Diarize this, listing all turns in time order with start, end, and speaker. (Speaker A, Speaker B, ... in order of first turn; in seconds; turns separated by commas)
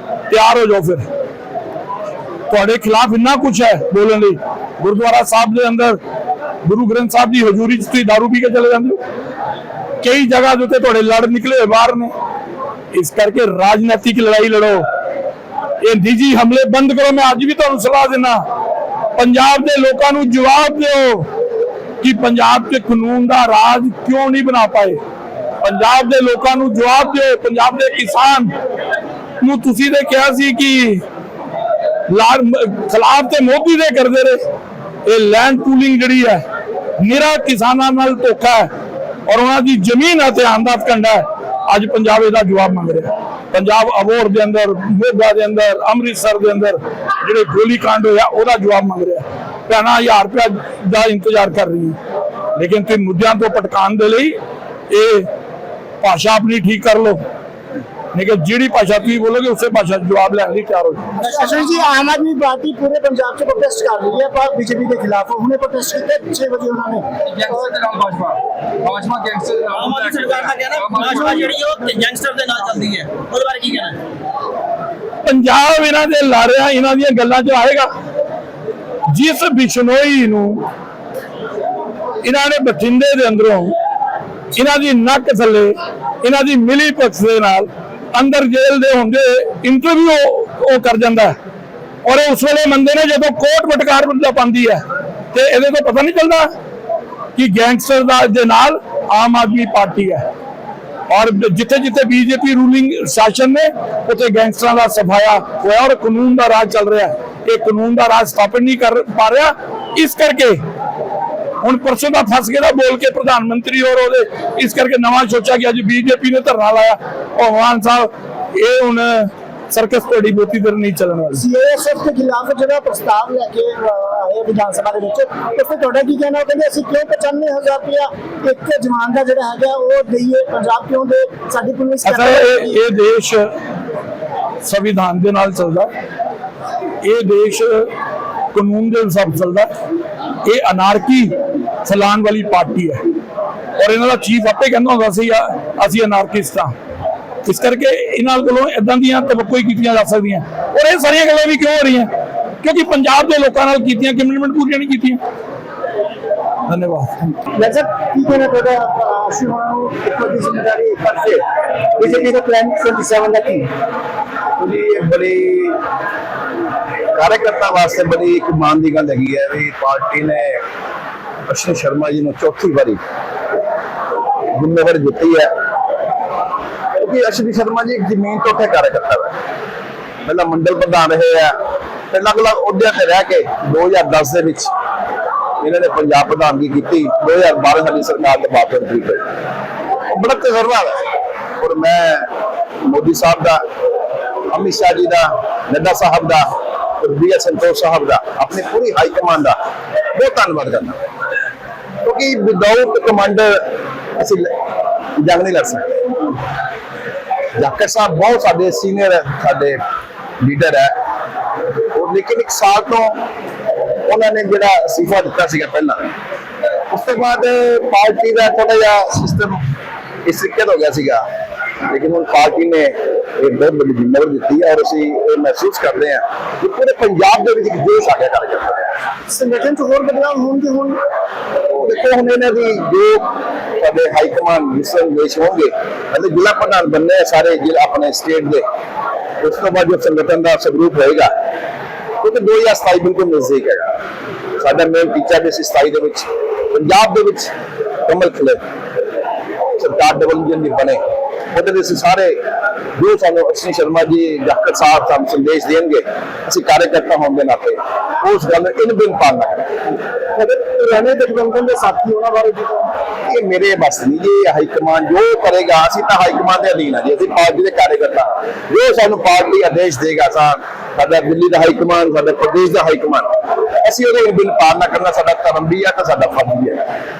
Speaker A: 0.3-1.1, Speaker A: 2.5-6.0, Speaker A: 6.6-9.0, Speaker A: 10.0-12.1, Speaker A: 12.9-14.9, Speaker A: 15.8-18.4, Speaker A: 19.1-21.3, Speaker A: 22.0-25.0, Speaker A: 25.6-28.5, Speaker A: 29.4-31.0, Speaker A: 32.1-34.4, Speaker A: 35.0-36.4, Speaker A: 37.0-38.7, Speaker A: 39.2-52.0, Speaker A: 52.5-54.4, Speaker A: 54.9-55.3, Speaker A: 56.0-57.2, Speaker A: 58.1-61.1, Speaker B: 61.2-67.7, Speaker C: 67.3-71.5, Speaker D: 69.8-74.0, Speaker A: 75.2-77.9, Speaker A: 79.1-80.7, Speaker A: 82.2-83.7, Speaker A: 84.5-91.3, Speaker A: 92.0-96.5, Speaker A: 97.3-100.2, Speaker A: 101.1-110.6, Speaker A: 111.6-121.4, Speaker B: 121.3-132.8, Speaker A: 132.0-133.5, Speaker A: 134.6-135.9, Speaker A: 137.0-137.9, Speaker A: 138.5-139.7, Speaker A: 140.4-143.0, Speaker A: 143.8-146.7, Speaker A: 147.4-152.1, Speaker A: 152.6-155.2, Speaker A: 156.7-157.1, Speaker B: 157.4-163.7, Speaker E: 164.6-165.8, Speaker E: 167.1-170.6, Speaker E: 171.5-173.0, Speaker E: 174.5-175.5, Speaker E: 176.9-179.3, Speaker E: 180.2-181.6, Speaker E: 182.1-184.7, Speaker E: 185.6-189.2, Speaker E: 190.1-191.0, Speaker E: 191.6-192.3, Speaker E: 192.8-193.6, Speaker E: 194.5-199.6, Speaker E: 200.1-201.0, Speaker E: 202.0-204.5, Speaker E: 205.2-206.1, Speaker E: 207.6-209.8, Speaker E: 210.4-210.9, Speaker E: 211.9-213.2, Speaker E: 214.1-216.1, Speaker E: 216.9-219.6, Speaker E: 220.2-221.2, Speaker E: 221.9-228.9, Speaker B: 229.3-231.0, Speaker E: 231.7-238.6, Speaker E: 239.4-241.3, Speaker E: 242.2-244.0, Speaker E: 244.6-247.5, Speaker E: 248.1-248.6, Speaker E: 249.7-251.0, Speaker E: 251.5-252.4, Speaker E: 252.9-259.7, Speaker B: 260.3-262.9, Speaker E: 263.2-276.9